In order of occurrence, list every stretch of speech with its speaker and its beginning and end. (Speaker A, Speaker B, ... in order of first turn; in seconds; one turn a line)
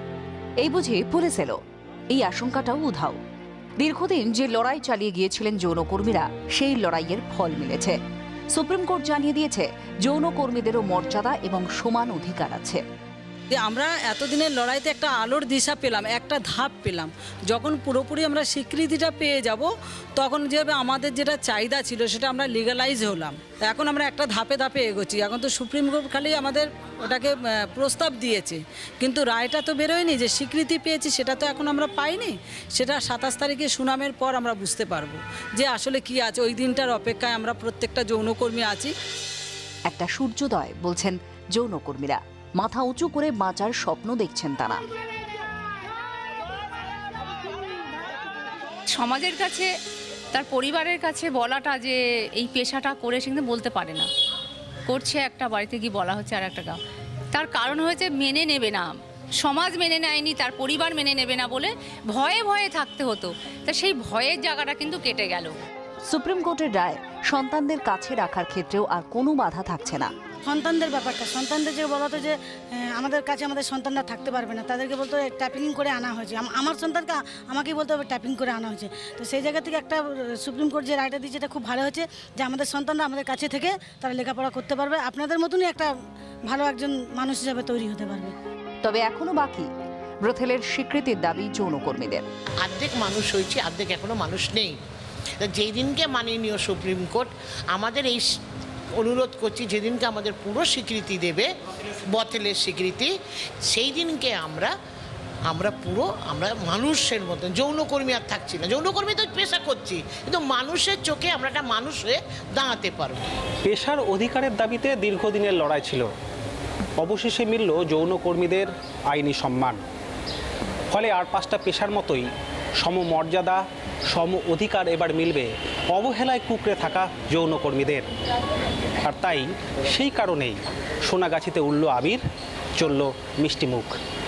Speaker A: 0.6-1.6
Speaker A: 2.1-3.2
Speaker A: 3.8-8.0
Speaker A: 8.5-12.8
Speaker B: 13.5-38.9
Speaker A: 39.9-44.8
Speaker C: 48.9-49.7
Speaker C: 50.3-54.1
Speaker C: 54.9-56.8
Speaker C: 57.3-65.5
Speaker A: 66.1-70.1
Speaker D: 70.5-85.9
Speaker D: 86.5-88.3
Speaker A: 88.8-89.7
Speaker A: 90.2-92.2
Speaker E: 92.6-94.8
Speaker E: 95.4-98.3
Speaker E: 99.0-101.5
Speaker E: 102.1-103.1
Speaker E: 103.6-104.7
Speaker E: 105.5-113.2
Speaker F: 113.6-116.1
Speaker F: 117.0-119.8
Speaker F: 120.9-122.3
Speaker F: 122.8-128.1
Speaker F: 129.0-132.2
Speaker F: 132.8-134.0